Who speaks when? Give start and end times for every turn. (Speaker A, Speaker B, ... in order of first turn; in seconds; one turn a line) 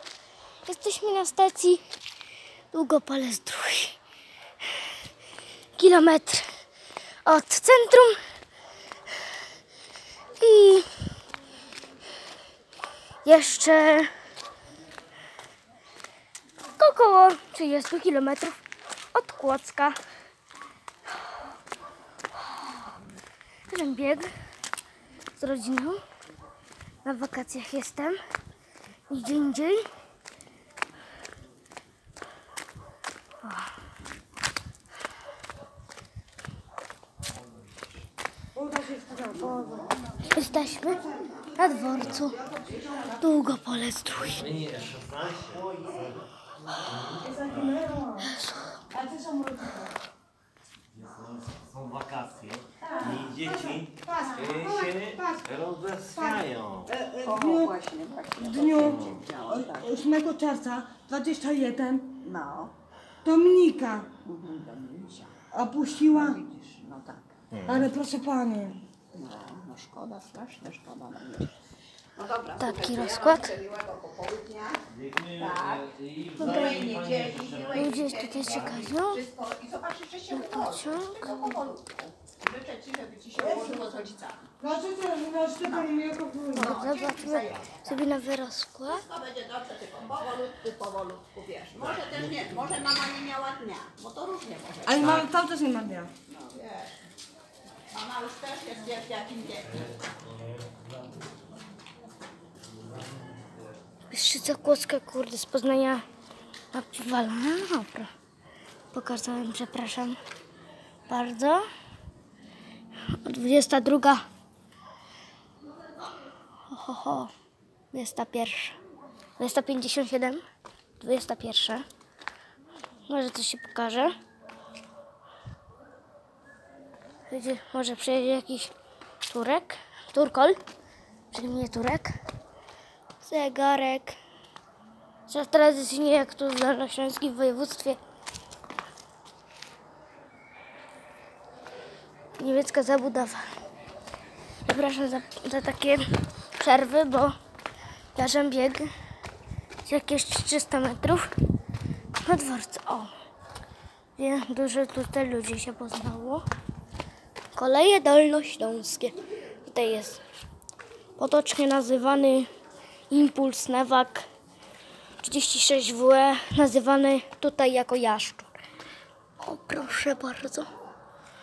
Speaker A: 0.7-1.8
Speaker A: 2.7-4.0
Speaker A: 5.8-6.5
Speaker A: 7.2-8.2
Speaker A: 10.4-10.9
Speaker A: 13.2-14.1
Speaker A: 16.8-18.6
Speaker A: 19.1-20.0
Speaker A: 23.7-24.3
Speaker A: 25.4-26.0
Speaker A: 27.0-28.2
Speaker A: 29.1-29.9
Speaker A: 33.4-33.7
Speaker B: 38.5-39.9
Speaker A: 40.2-42.4
Speaker C: 40.9-41.3
Speaker B: 41.7-43.2
Speaker A: 43.2-44.6
Speaker D: 44.3-47.8
Speaker B: 47.2-48.3
Speaker A: 48.2-48.8
Speaker B: 48.9-49.9
Speaker D: 50.9-57.0
Speaker C: 52.9-53.3
Speaker B: 53.5-55.4
Speaker B: 56.2-57.8
Speaker C: 57.1-60.0
Speaker B: 58.5-62.2
Speaker D: 58.8-59.3
Speaker C: 62.2-62.7
Speaker B: 63.2-64.1
Speaker C: 64.2-65.4
Speaker B: 65.5-66.4
Speaker C: 66.0-67.3
Speaker B: 67.7-68.8
Speaker C: 69.1-71.6
Speaker C: 72.2-84.5
Speaker A: 72.6-73.5
Speaker D: 74.9-78.8
Speaker A: 76.4-76.8
Speaker A: 77.7-79.2
Speaker A: 80.3-81.6
Speaker B: 83.6-83.8
Speaker B: 84.6-86.8
Speaker C: 85.6-85.9
Speaker C: 86.5-88.1
Speaker A: 86.5-89.1
Speaker C: 88.9-95.3
Speaker D: 92.1-92.4
Speaker B: 94.9-96.1
Speaker C: 96.3-96.9
Speaker C: 97.9-99.9
Speaker A: 104.1-106.0
Speaker A: 106.7-108.1
Speaker A: 108.9-110.2
Speaker A: 111.1-111.7
Speaker A: 113.1-114.2
Speaker A: 116.7-117.3
Speaker A: 117.9-118.8
Speaker A: 119.4-120.4
Speaker A: 121.0-121.8
Speaker A: 123.1-124.1
Speaker A: 127.3-128.7
Speaker A: 129.3-130.6
Speaker A: 131.3-132.1
Speaker A: 133.2-134.2
Speaker A: 135.3-138.0
Speaker A: 142.4-143.4
Speaker A: 144.7-146.1
Speaker A: 146.6-147.3
Speaker A: 148.2-148.9
Speaker A: 149.8-151.3
Speaker A: 152.2-153.1
Speaker A: 154.2-156.4
Speaker A: 157.6-160.2
Speaker A: 161.2-162.5
Speaker A: 163.1-164.2
Speaker A: 165.2-168.5
Speaker A: 169.4-170.7